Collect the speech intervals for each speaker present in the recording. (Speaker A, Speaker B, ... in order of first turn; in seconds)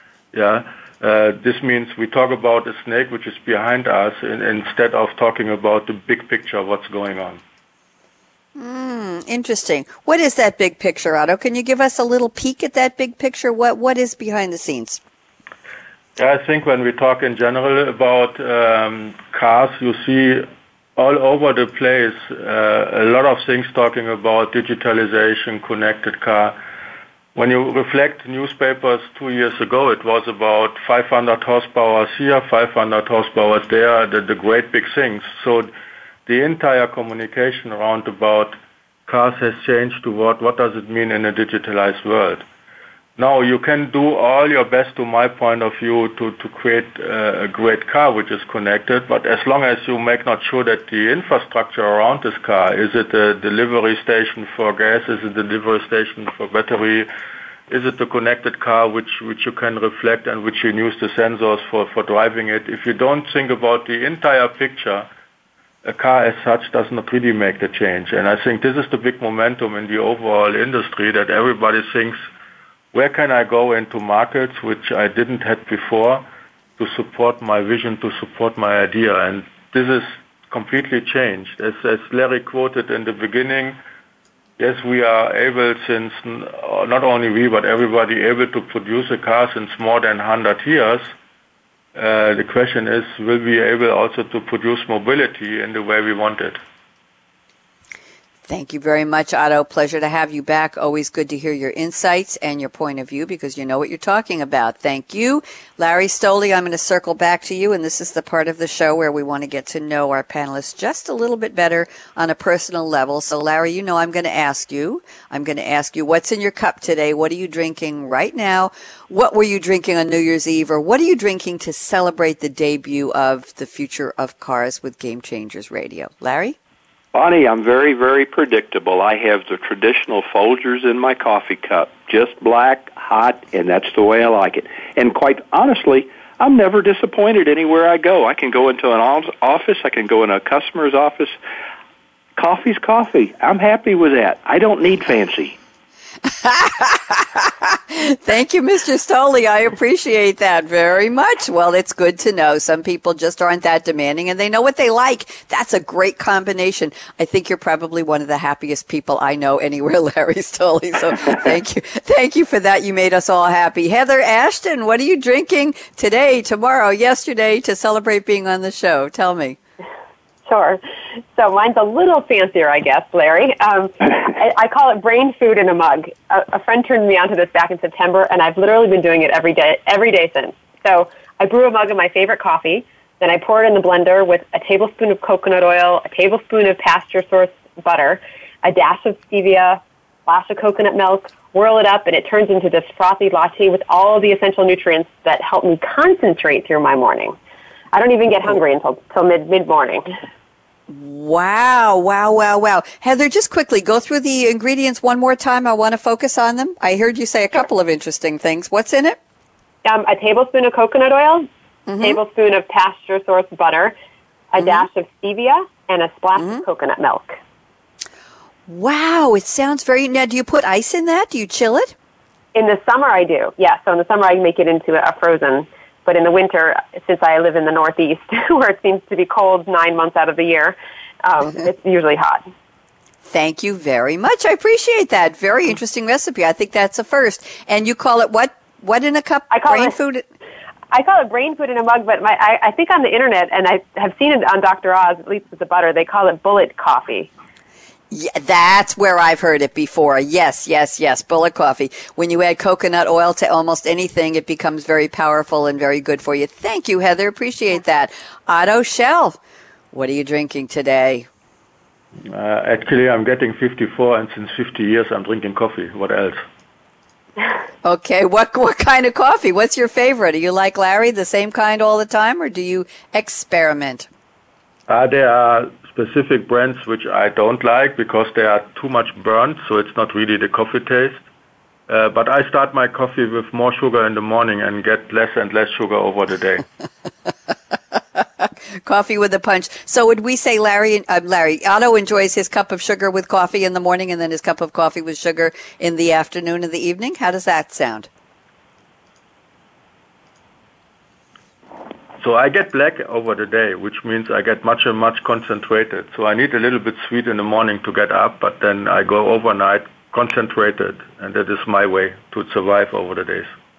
Speaker A: 0.3-7.4, 16.2-26.6, 27.4-35.7, 36.2-38.5, 39.0-42.4, 43.2-57.1, 57.7-65.1, 65.8-72.2, 72.9-76.2, 76.8-83.8, 84.6-91.1, 91.9-96.6, 262.3-266.4, 274.9-281.2, 281.9-286.6, 302.2-313.5
Speaker B: 8.6-15.0, 98.5-126.6, 146.2-169.6, 200.9-209.2, 211.9-212.2, 214.6-214.9, 216.4-216.6, 218.7-221.9, 233.2-240.2, 248.1-259.4, 259.9-261.3, 267.8-274.1, 287.9-298.1
Speaker C: 127.1-141.4, 142.4-145.6
Speaker D: 170.4-170.8, 171.4-197.4, 197.9-200.1, 209.8-211.5, 212.0-213.9, 214.5-217.4, 222.5-232.5, 239.5-239.9, 240.9-247.3